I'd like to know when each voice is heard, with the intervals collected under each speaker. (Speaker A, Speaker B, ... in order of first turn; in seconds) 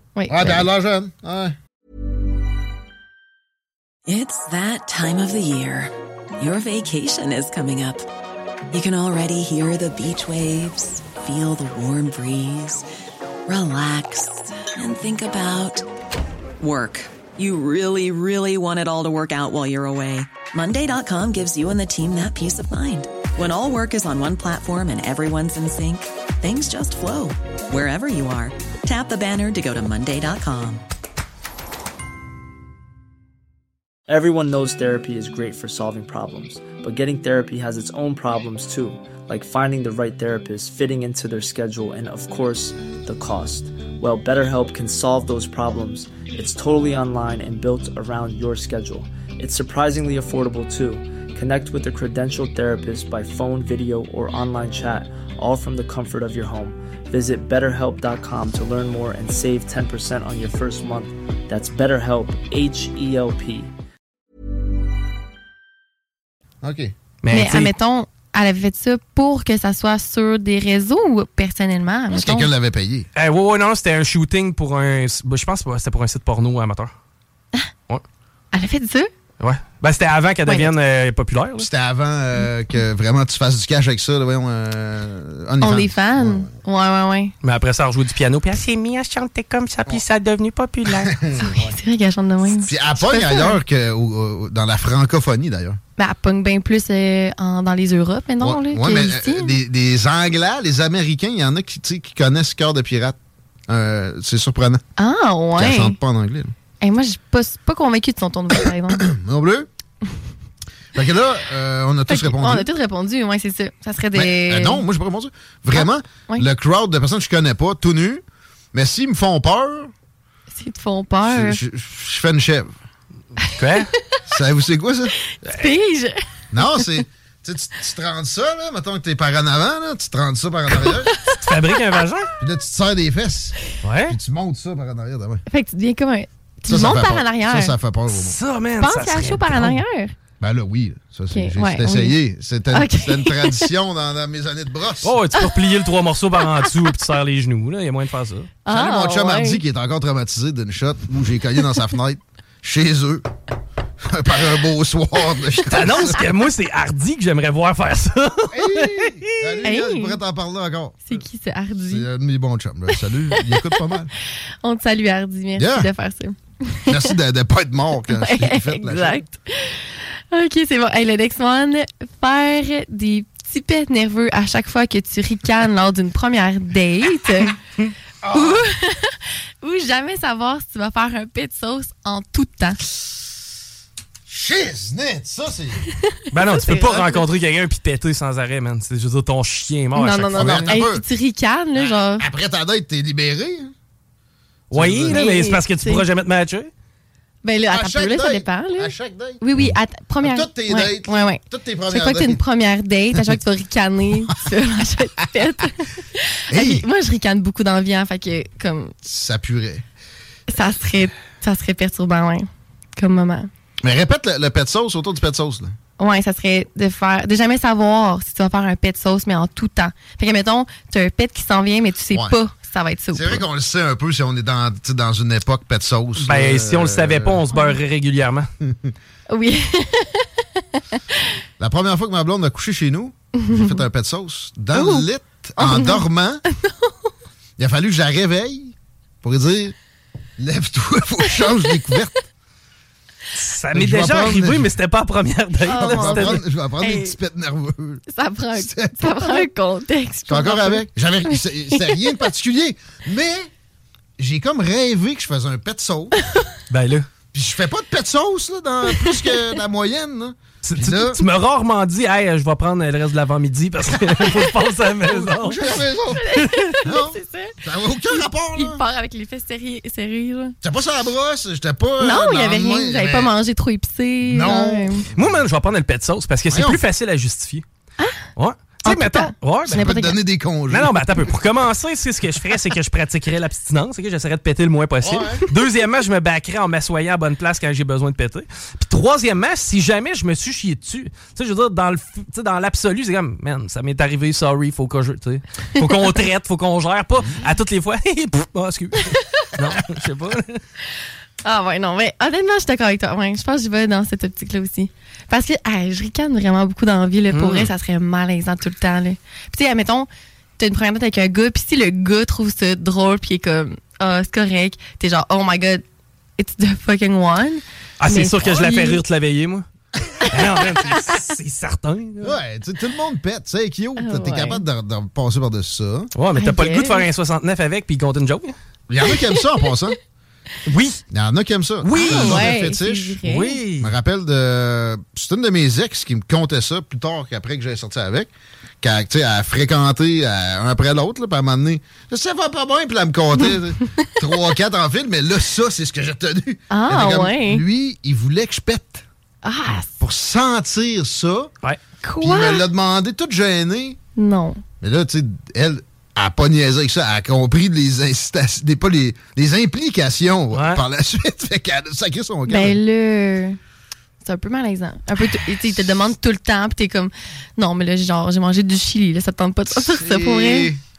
Speaker A: 0.2-0.7, 67.3-72.5, 78.5-79.1, 80.5-80.7, 85.6-87.3, 91.3-93.6, 96.0-99.6, 105.0-106.0, 106.8-109.0, 112.1-114.9, 115.7-116.5, 120.5-121.6, 125.3-126.9, 131.1-131.4, 135.5-137.8, 138.8-140.1, 141.3-142.2, 142.7-143.7, 148.7-149.6, 159.6-160.2, 161.1-162.1, 162.9-163.8, 164.6-167.1, 168.1-177.6, 178.3-182.8, 186.1-187.2, 189.9-192.2, 195.1-196.1, 197.4-208.9, 210.5-213.5, 216.0-223.4, 229.3-231.0, 233.4-233.8, 234.7-236.9, 245.7-247.2, 248.1-252.0, 258.9-259.5, 266.1-267.6, 268.1-270.6, 272.0-275.1, 278.8-280.2, 301.4-315.8, 316.4-319.0, 324.0-324.6, 326.4-327.1, 329.1-329.4, 331.9-333.6, 346.7-347.6, 349.4-350.0, 352.0-352.7, 354.2-354.6, 362.5-363.6, 364.2-370.7
Speaker B: 0.3-1.6, 66.6-67.0, 72.1-73.1, 81.6-86.5, 90.9-91.7, 92.6-95.8, 98.4-103.2, 103.7-104.8, 105.6-106.5, 108.9-109.7, 111.0-112.7, 114.1-118.2, 118.7-119.9, 121.3-122.7, 124.3-125.2, 126.5-131.1, 132.4-135.4, 136.7-138.4, 140.4-145.2, 148.7-153.3, 154.0-156.2, 158.5-161.2, 161.9-164.1, 165.6-165.9, 166.9-169.3, 178.2-178.7, 184.3-185.8, 190.3-191.0, 191.8-193.7, 194.7-195.3, 197.7-202.4, 206.5-206.8, 209.0-209.9, 213.8-215.8, 223.1-227.4, 228.7-228.9, 231.6-236.4, 237.6-239.8, 240.4-242.3, 243.7-244.7, 245.7-248.0, 248.6-249.5, 250.3-253.5, 254.2-256.2, 257.3-261.2, 263.9-268.8, 270.6-273.3, 274.3-275.4, 276.5-276.8, 279.7-281.2, 285.0-285.4, 322.2-326.1, 328.9-330.0, 331.1-333.2, 333.8-338.3, 338.8-349.1, 350.0-351.5, 352.2-354.0, 354.8-362.8, 369.7-370.8
Speaker C: 4.1-8.1, 8.7-12.9, 13.5-15.9, 16.6-30.8
Speaker D: 34.1-63.7
Speaker E: 67.2-67.7, 73.2-76.9, 79.4-81.7, 87.4-91.2, 123.5-123.9, 131.3-132.3, 133.8-134.2, 138.1-139.8, 145.0-148.6, 155.7-159.6, 186.3-190.7, 194.7-196.7, 226.2-228.5, 243.3-246.4, 256.7-257.1, 260.6-266.7, 275.2-277.6, 278.4-279.9, 280.7-300.6, 307.3-307.7, 318.0-319.6, 320.3-322.4, 326.1-328.6, 330.7-331.0, 331.8-332.6, 333.2-333.9, 360.5-360.8